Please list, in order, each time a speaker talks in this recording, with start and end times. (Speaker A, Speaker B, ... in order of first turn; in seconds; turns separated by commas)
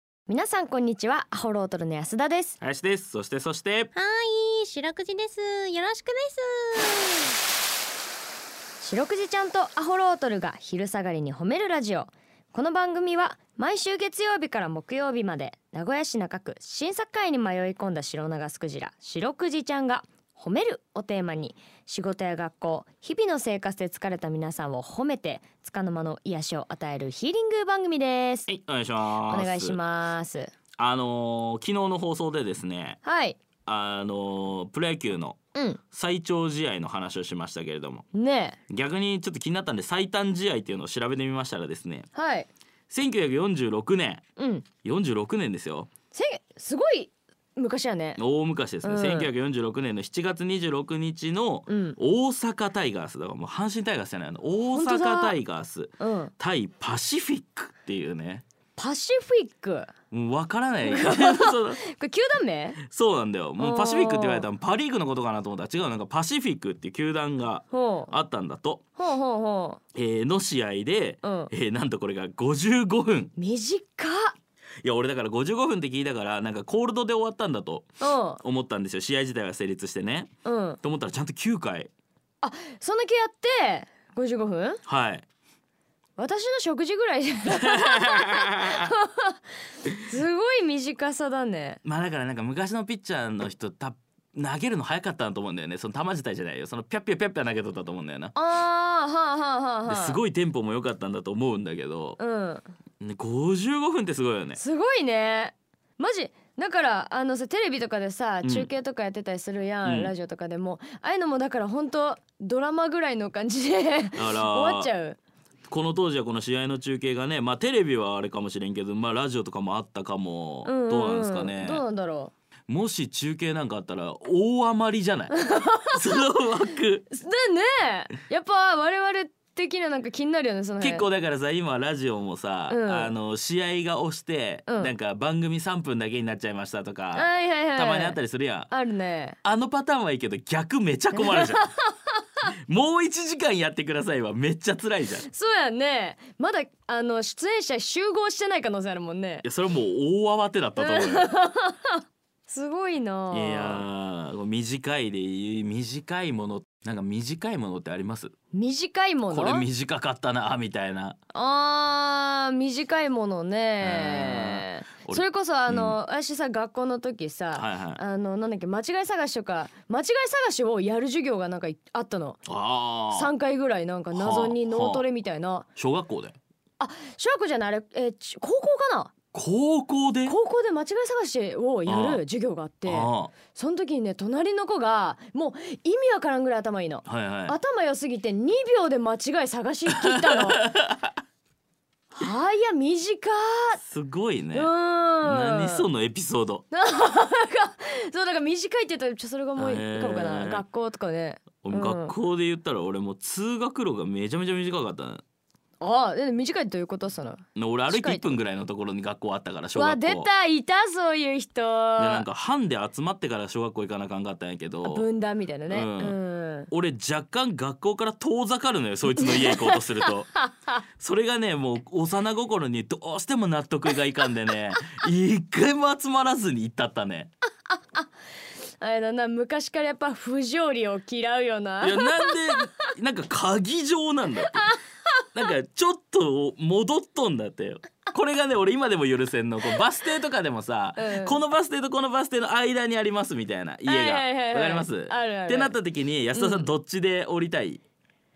Speaker A: 0.3-2.6, Speaker B: 2.6-3.9, Speaker C: 3.9-7.3, Speaker A: 8.8-28.5, Speaker B: 28.5-29.8, Speaker A: 29.2-30.5, Speaker B: 30.8-33.0, Speaker A: 33.0-33.4, Speaker B: 33.6-35.4, Speaker A: 35.5-35.8, Speaker B: 35.9-38.0, Speaker A: 38.1-38.6, Speaker B: 38.7-42.1, Speaker A: 42.1-42.5, Speaker B: 42.9-44.2, Speaker A: 44.4-44.6, Speaker B: 44.8-45.9, Speaker A: 46.1-48.2, Speaker B: 48.2-58.4, Speaker A: 48.8-49.3, Speaker A: 51.7-52.0, Speaker A: 54.7-55.4, Speaker A: 56.0-56.3, Speaker A: 58.8-59.9, Speaker B: 60.1-61.8, Speaker A: 60.8-62.8, Speaker B: 62.8-68.8, Speaker A: 63.6-64.5, Speaker A: 67.7-68.1, Speaker A: 69.0-69.8, Speaker B: 70.0-73.3, Speaker A: 71.2-71.5, Speaker A: 73.4-74.4, Speaker B: 74.8-80.3, Speaker A: 78.0-78.4, Speaker A: 80.5-80.8, Speaker B: 80.8-81.9, Speaker A: 82.4-84.8, Speaker B: 84.9-85.2, Speaker A: 86.2-89.4, Speaker B: 87.5-88.9, Speaker A: 90.0-91.8, Speaker B: 91.8-98.3, Speaker A: 98.3-100.2, Speaker B: 99.9-102.2, Speaker A: 102.2-102.6, Speaker B: 103.0-104.6, Speaker A: 104.6-115.2, Speaker B: 108.4-108.7, Speaker B: 109.8-110.1, Speaker B: 114.2-114.9, Speaker B: 115.7-121.8, Speaker A: 120.7-122.3, Speaker B: 122.7-127.0, Speaker A: 125.3-126.0, Speaker A: 127.1-131.1, Speaker B: 130.8-138.7, Speaker A: 132.7-133.1, Speaker A: 134.7-134.9, Speaker A: 137.1-139.4, Speaker B: 139.4-141.7, Speaker A: 141.1-141.9, Speaker B: 142.7-145.2, Speaker A: 145.2-149.5, Speaker B: 149.4-151.3, Speaker A: 150.8-153.9, Speaker B: 153.3-158.3, Speaker A: 158.5-159.7, Speaker B: 159.3-161.2, Speaker A: 161.3-172.4, Speaker B: 163.8-166.0, Speaker B: 167.6-168.0, Speaker B: 172.5-173.3, Speaker A: 173.1-175.7, Speaker B: 174.1-175.0, Speaker B: 175.8-176.4, Speaker A: 176.8-179.1, Speaker B: 179.3-180.4, Speaker A: 180.2-190.7, Speaker B: 181.9-182.2, Speaker B: 182.9-183.3, Speaker B: 187.1-187.6, Speaker B: 189.9-191.1, Speaker A: 192.1-193.8, Speaker B: 193.8-194.7, Speaker A: 194.5-195.8, Speaker B: 195.2-196.6, Speaker A: 196.7-202.2, Speaker B: 199.6-200.6, Speaker B: 201.6-205.2, Speaker A: 205.8-208.4, Speaker B: 207.6-210.3, Speaker A: 209.7-212.3, Speaker B: 212.0-215.1, Speaker A: 214.8-216.7, Speaker B: 215.7-216.2, Speaker B: 216.7-220.3, Speaker A: 219.2-220.8, Speaker B: 221.0-227.3, Speaker A: 227.7-228.1, Speaker A: 228.8-232.9, Speaker B: 231.8-234.8, Speaker A: 234.4-234.7, Speaker B: 235.3-247.8, Speaker A: 241.0-241.4, Speaker A: 243.9-245.8, Speaker A: 246.3-246.7